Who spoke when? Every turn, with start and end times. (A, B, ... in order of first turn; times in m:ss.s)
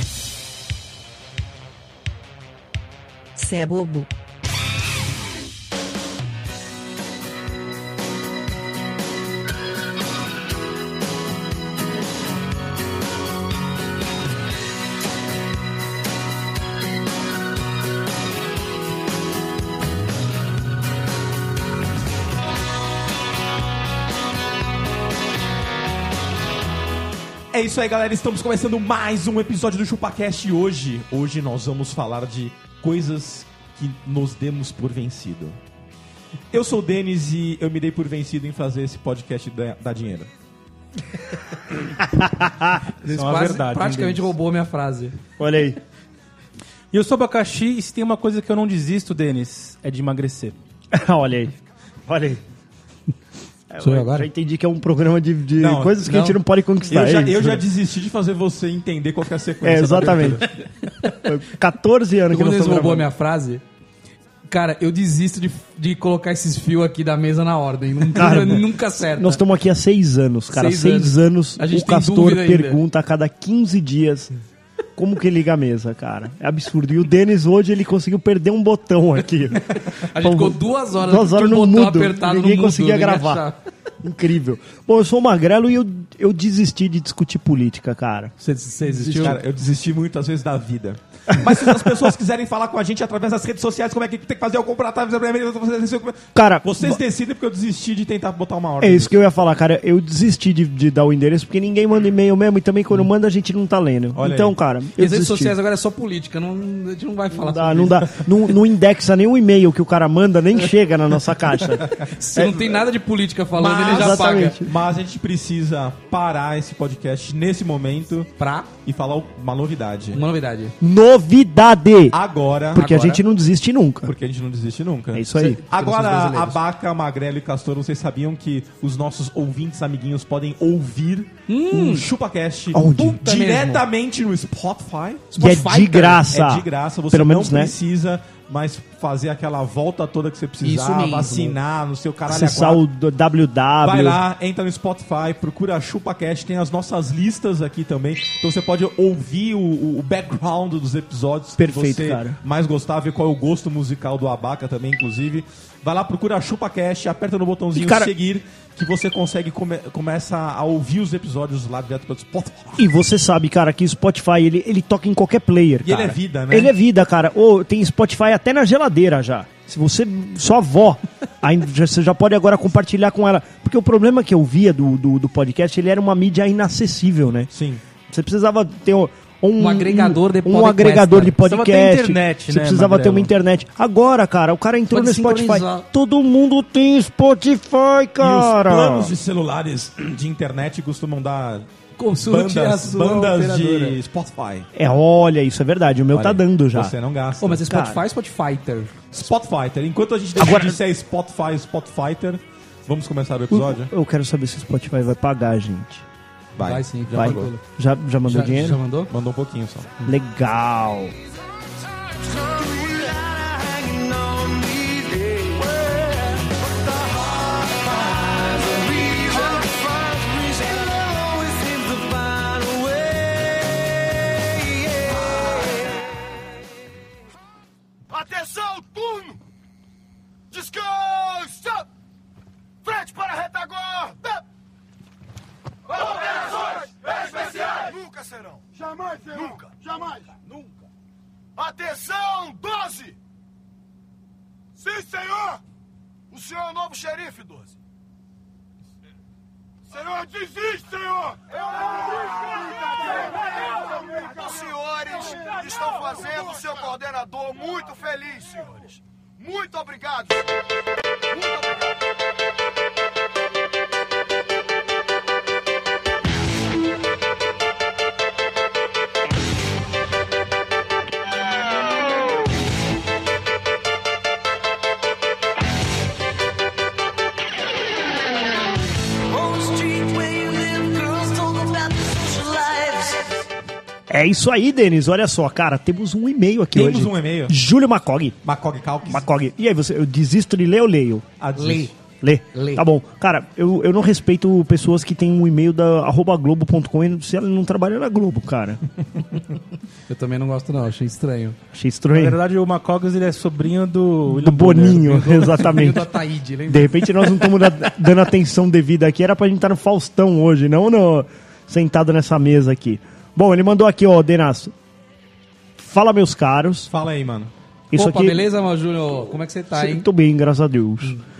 0:03.4-0:04.1 A
0:27.5-0:35.6 B
0:36.5-0:40.3 B
0:42.0-0:42.8 C
0:43.0-0:45.1 D
0:43.1-0:44.3 E
0:45.4-0:45.8 C
0:46.9-0:50.5 E
0:50.9-0:51.5 C
0:52.0-0:52.4 C
0:53.7-0:57.6 C
0:53.8-0:54.3 D
0:55.6-0:56.0 B
0:56.0-0:56.4 D
0:56.9-1:00.5 B
0:59.6-1:00.4 C
1:01.1-1:03.1 C
1:02.3-1:03.6 D
1:04.5-1:09.4 D
1:08.1-1:14.3 C
1:10.5-1:12.8 D
1:14.9-1:23.5 C
1:19.9-1:23.6 D
1:24.0-1:28.3 C
1:28.4-1:29.4 D
1:29.0-1:29.3 C
1:29.1-1:39.1 B
1:31.3-1:32.0 C
1:36.3-1:37.0 C
1:38.8-1:45.6 C
1:44.1-1:44.5 B
1:45.0-1:48.3 D
1:47.3-1:52.8 C
1:52.0-1:54.6 D
1:53.6-1:58.3 B
1:53.7-1:54.7 C
1:58.4-1:58.7 D
1:58.8-2:00.2 B
2:00.1-2:00.7 D
2:00.8-2:02.2 C
2:02.1-2:02.9 B
2:02.7-2:04.1 C
2:02.7-2:03.2 D
2:04.0-2:15.3 B
2:05.1-2:05.6 C
2:05.3-2:06.6 D
2:11.5-2:12.1 D
2:12.7-2:13.4 C
2:12.9-2:13.8 D
2:15.3-2:16.2 D
2:15.4-2:17.7 C
2:16.3-2:22.8 B
2:20.6-2:21.6 D
2:22.2-2:24.2 C
2:23.8-2:42.8 B
2:31.6-2:32.4 C
2:37.7-2:38.1 C
2:42.8-2:57.5 C
2:45.8-2:46.7 B
2:57.5-2:57.8 B
2:58.1-3:09.2 C
2:59.6-3:01.4 D
3:01.4-3:03.3 E
3:04.9-3:05.8 D
3:08.2-3:11.7 B
3:12.0-3:13.9 D
3:12.2-3:14.7 B
3:13.5-3:14.0 E
3:14.7-3:16.9 C
3:16.1-3:17.6 B
3:17.4-3:18.9 D
3:17.6-3:18.0 C
3:19.1-3:23.9 B
3:20.4-3:20.8 C
3:23.5-3:26.0 C
3:26.6-3:27.5 B
3:26.6-3:27.6 D
3:27.2-3:28.8 C
3:28.2-3:29.1 D
3:29.1-3:29.9 B
3:30.0-3:31.1 C
3:32.0-3:46.1 A
3:48.1-3:49.4 F
3:50.5-3:51.9 F
3:52.8-3:54.4 F
3:55.9-4:00.7 F
4:01.6-4:03.2 F
4:04.8-4:05.6 F
4:06.3-4:07.8 F
4:09.9-4:20.5 F
4:21.3-4:22.0 F
4:39.2-4:43.4 A
4:44.1-4:48.4 C
4:46.7-4:47.5 B
4:48.4-4:49.2 B
4:49.0-4:51.3 C
4:51.4-4:51.9 B
4:51.5-4:51.9 D
4:52.2-4:58.8 C
4:52.5-4:52.8 D
5:00.1-5:01.6 D
5:01.7-5:02.4 C
5:02.1-5:05.2 E
5:04.3-5:06.1 C
5:04.8-5:07.5 D
5:06.7-5:14.7 C
5:15.8-5:16.9 C
5:16.9-5:17.5 B
5:17.9-5:18.4 C
5:17.9-5:20.0 D
5:19.7-5:21.2 C